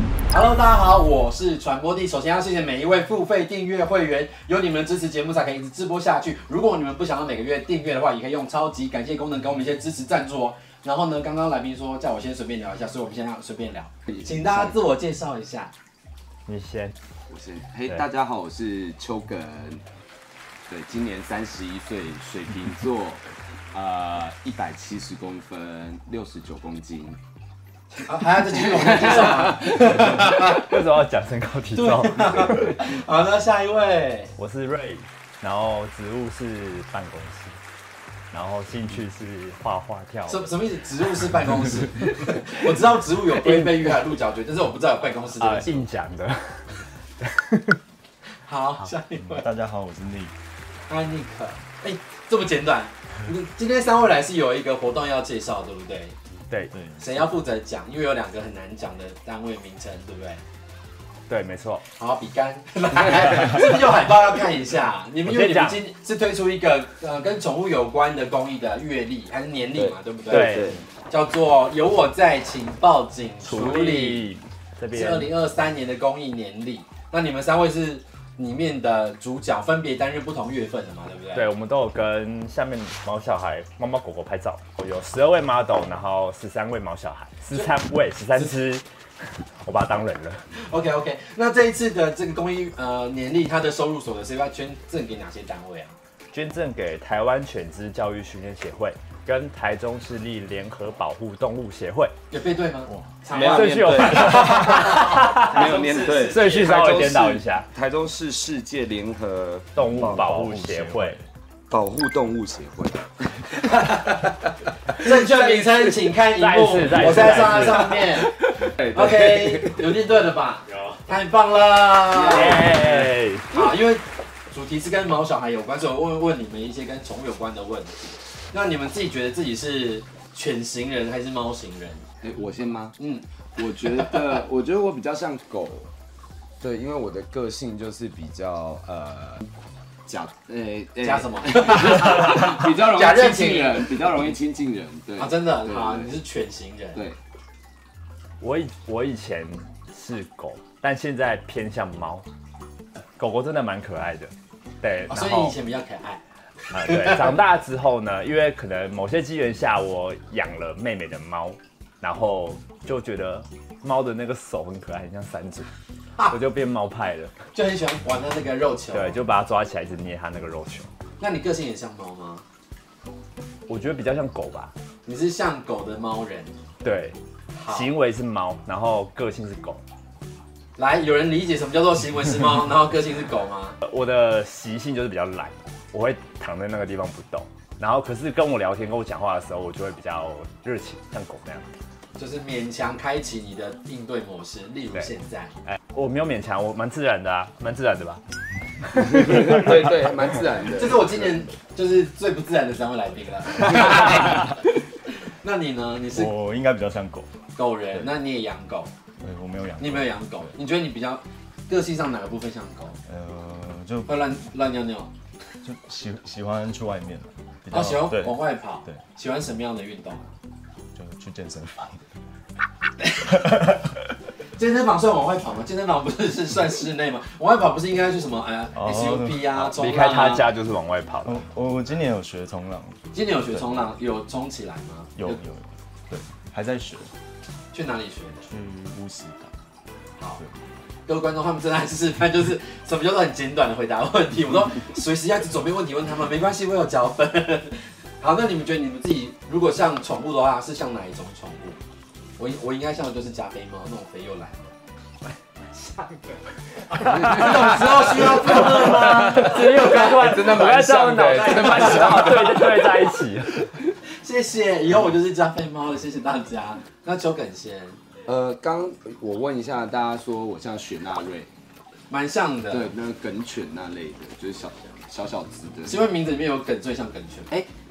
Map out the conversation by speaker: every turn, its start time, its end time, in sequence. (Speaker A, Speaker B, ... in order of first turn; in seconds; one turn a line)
Speaker A: 0.3-15.7
Speaker B: 16.4-16.9
Speaker C: 17.3-19.8
Speaker C: 20.7-27.2
Speaker A: 28.1-30.7
Speaker C: 28.5-29.9
Speaker B: 29.7-32.8
Speaker A: 31.7-34.3
Speaker B: 34.4-37.6
Speaker B: 38.3-40.5
Speaker A: 40.3-45.8
Speaker C: 43.4-43.9
Speaker B: 45.4-47.8
Speaker A: 48.4-49.5
Speaker D: 49.2-50.3
Speaker A: 50.9-56.1
Speaker D: 56.7-57.1
Speaker A: 57.0-60.4
Speaker B: 61.3-61.8
Speaker A: 62.0-74.3
Speaker B: 65.2-65.8
Speaker C: 69.7-70.8
Speaker B: 70.3-70.8
Speaker B: 73.4-75.3
Speaker A: 74.9-81.5
Speaker B: 81.3-88.8
Speaker B: 89.6-90.4
Speaker A: 90.5-95.9
Speaker B: 96.3-102.1
Speaker A: 102.3-106.6
Speaker D: 102.9-103.2
Speaker C: 103.3-110.2
Speaker B: 103.3-107.7
Speaker B: 109.8-111.2
Speaker D: 110.0-111.2
Speaker C: 111.7-114.3
Speaker A: 113.8-114.1
Speaker C: 114.9-115.7
Speaker A: 114.9-118.3
Speaker B: 116.4-118.0
Speaker C: 117.0-119.8
Speaker A: 118.8-122.8
Speaker C: 122.1-123.1
Speaker B: 122.2-123.5
Speaker A: 123.5-128.0
Speaker A: 128.5-132.0
Speaker C: 132.2-132.9
Speaker A: 133.0-133.2
Speaker C: 133.6-135.9
Speaker A: 133.8-134.2
Speaker C: 136.6-139.5
Speaker C: 140.1-146.1
Speaker A: 141.0-143.9
Speaker A: 145.2-147.0
Speaker B: 148.4-152.2
Speaker B: 153.2-155.5
Speaker A: 155.1-156.2
Speaker B: 156.7-165.7
Speaker A: 156.8-157.3
Speaker B: 166.3-167.3
Speaker A: 167.5-169.2
Speaker B: 168.9-170.9
Speaker A: 171.2-172.4
Speaker B: 173.7-174.7
Speaker A: 175.1-176.5
Speaker B: 176.8-177.2
Speaker A: 177.6-177.9
Speaker B: 177.7-179.8
Speaker A: 180.8-183.8
Speaker B: 183.8-191.7
Speaker A: 192.2-195.5
Speaker B: 195.7-198.2
Speaker B: 198.8-199.9
Speaker C: 198.9-201.1
Speaker A: 200.8-204.6
Speaker A: 205.3-206.3
Speaker D: 206.1-208.1
Speaker A: 207.6-208.9
Speaker D: 209.2-210.5
Speaker A: 209.8-213.0
Speaker D: 213.1-214.1
Speaker A: 214.1-215.1
Speaker D: 215.6-219.0
Speaker A: 217.7-220.3
Speaker D: 220.9-222.0
Speaker D: 223.3-223.9
Speaker A: 224.6-230.5
Speaker D: 228.7-229.7
Speaker B: 229.7-231.4
Speaker D: 231.2-233.9
Speaker A: 233.1-235.4
Speaker D: 235.2-237.1
Speaker A: 237.7-238.5
Speaker D: 238.5-239.5
Speaker A: 241.1-251.8
Speaker A: 252.4-254.7
Speaker A: 255.7-256.4
Speaker A: 256.9-260.4
Speaker C: 256.9-263.0
Speaker B: 258.5-263.7
Speaker A: 261.3-262.6
Speaker A: 264.2-268.0
Speaker C: 268.2-271.5
Speaker A: 272.1-272.9
Speaker C: 272.7-276.0
Speaker A: 275.9-277.5